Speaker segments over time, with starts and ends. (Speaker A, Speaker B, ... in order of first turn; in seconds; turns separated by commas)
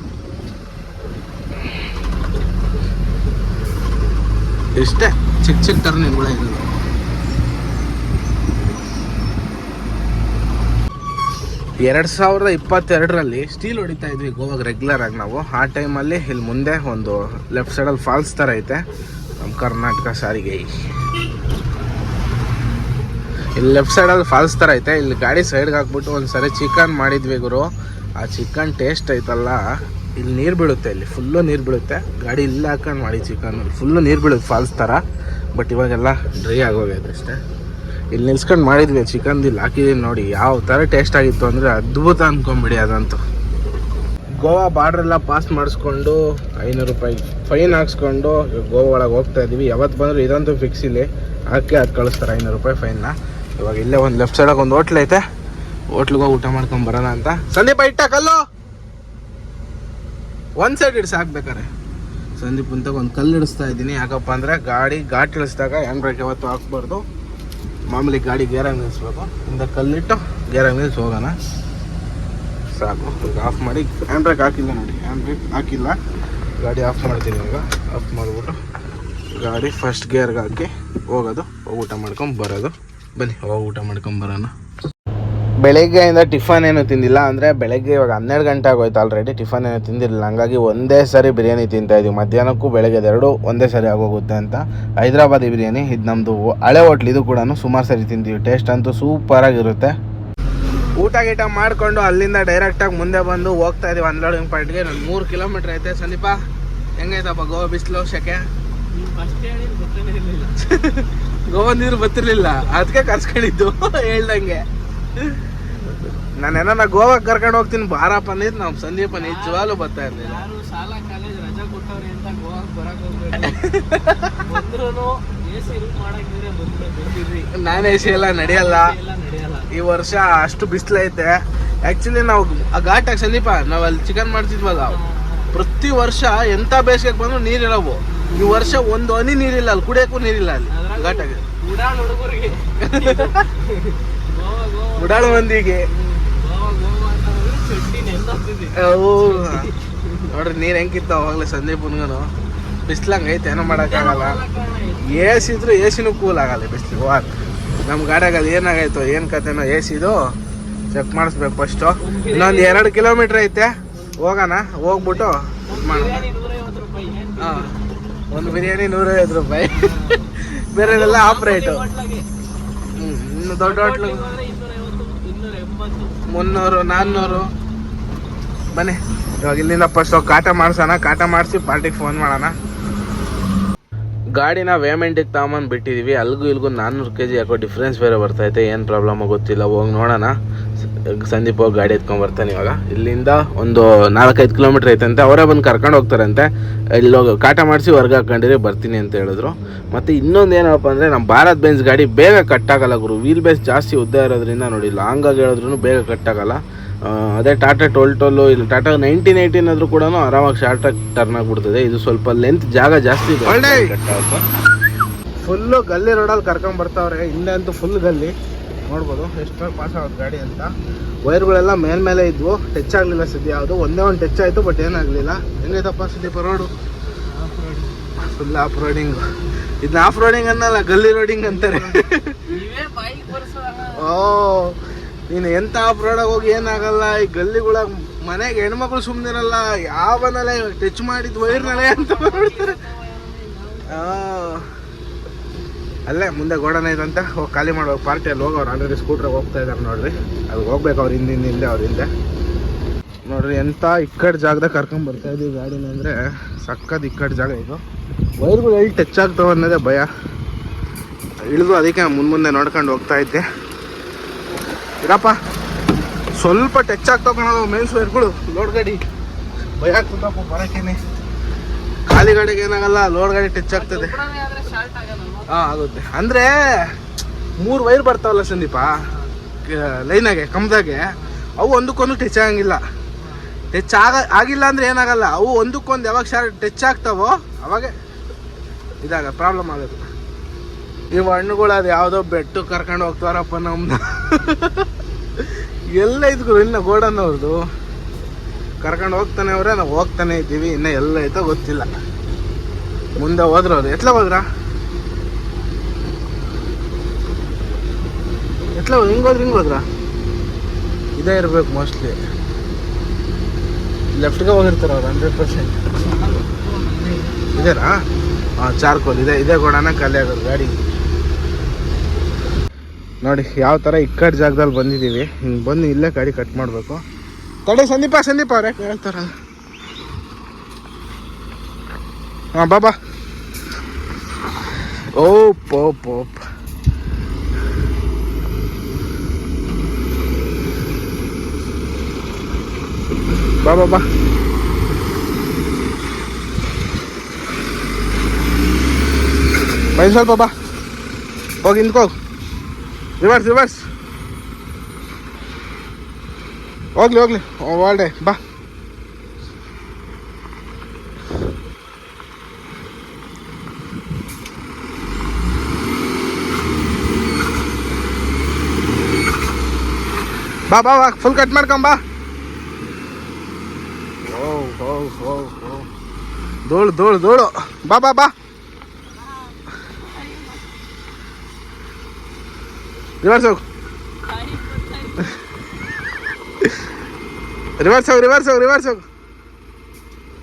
Speaker A: 4.8-6.7, Speaker A: 11.8-18.8, Speaker A: 19.4-20.7, Speaker A: 23.6-27.7, Speaker A: 28.2-29.6, Speaker A: 30.2-35.0, Speaker A: 35.5-37.4, Speaker A: 38.1-43.2, Speaker A: 44.4-55.2, Speaker A: 55.9-58.4, Speaker A: 60.6-61.7, Speaker A: 62.4-67.0, Speaker A: 67.9-71.3, Speaker A: 72.8-76.0, Speaker A: 76.6-78.6, Speaker A: 79.3-84.5, Speaker A: 85.6-99.9, Speaker A: 101.0-106.4, Speaker A: 107.0-108.4, Speaker B: 108.9-110.7, Speaker A: 110.6-114.6, Speaker B: 112.4-113.0, Speaker A: 116.2-120.5, Speaker B: 119.1-123.6, Speaker A: 123.4-124.5, Speaker B: 124.3-129.7, Speaker A: 127.5-128.9, Speaker A: 129.7-135.0, Speaker B: 134.8-135.5, Speaker A: 135.5-141.4, Speaker B: 138.2-138.8, Speaker B: 140.7-150.3, Speaker A: 142.8-143.4, Speaker A: 145.0-145.9, Speaker A: 148.7-149.7, Speaker A: 150.3-152.2, Speaker A: 152.9-154.4, Speaker B: 153.7-155.6, Speaker A: 155.0-157.3, Speaker A: 157.8-160.2, Speaker A: 160.9-166.2, Speaker B: 162.0-163.1, Speaker B: 164.9-167.8, Speaker A: 167.4-167.7, Speaker A: 168.3-171.8, Speaker B: 168.3-168.7, Speaker B: 169.6-170.3, Speaker B: 170.8-172.3, Speaker A: 173.0-174.3, Speaker B: 173.6-176.2, Speaker A: 176.3-177.5, Speaker B: 176.9-177.4, Speaker A: 178.7-182.5, Speaker A: 184.3-190.3, Speaker A: 191.1-214.4, Speaker A: 215.4-218.3, Speaker A: 218.9-220.7, Speaker A: 221.3-226.7, Speaker B: 227.2-228.1, Speaker A: 228.2-229.2, Speaker A: 229.8-232.5, Speaker B: 231.4-234.2, Speaker A: 233.9-234.8, Speaker A: 235.3-242.8, Speaker B: 236.3-237.1, Speaker B: 241.4-244.3, Speaker A: 243.9-244.7, Speaker A: 246.1-252.1, Speaker A: 253.2-257.8, Speaker A: 258.4-260.1, Speaker A: 261.5-263.4, Speaker A: 265.0-265.4, Speaker A: 266.4-269.0, Speaker A: 269.8-271.0, Speaker A: 272.1-274.2, Speaker B: 273.7-275.6, Speaker A: 275.5-276.9, Speaker A: 277.6-279.0, Speaker A: 279.6-282.8, Speaker B: 281.1-281.4, Speaker B: 283.2-283.6, Speaker A: 283.7-287.9, Speaker A: 289.0-290.0, Speaker A: 291.1-297.6, Speaker A: 298.8-301.9, Speaker A: 303.2-304.4, Speaker A: 308.7-309.9, Speaker A: 311.2-312.2, Speaker A: 314.1-315.9, Speaker B: 316.0-317.9, Speaker A: 317.6-318.0, Speaker A: 318.6-320.7, Speaker A: 323.2-327.0, Speaker A: 327.6-329.3, Speaker A: 332.6-332.9, Speaker A: 335.1-336.4, Speaker A: 343.6-344.0, Speaker A: 349.9-350.5, Speaker A: 351.6-352.1, Speaker A: 353.2-353.8, Speaker A: 356.9-358.4, Speaker A: 370.7-372.0, Speaker A: 374.2-375.9, Speaker A: 376.6-378.3, Speaker B: 379.1-380.7, Speaker A: 383.2-383.6, Speaker B: 384.2-385.4, Speaker A: 387.8-389.0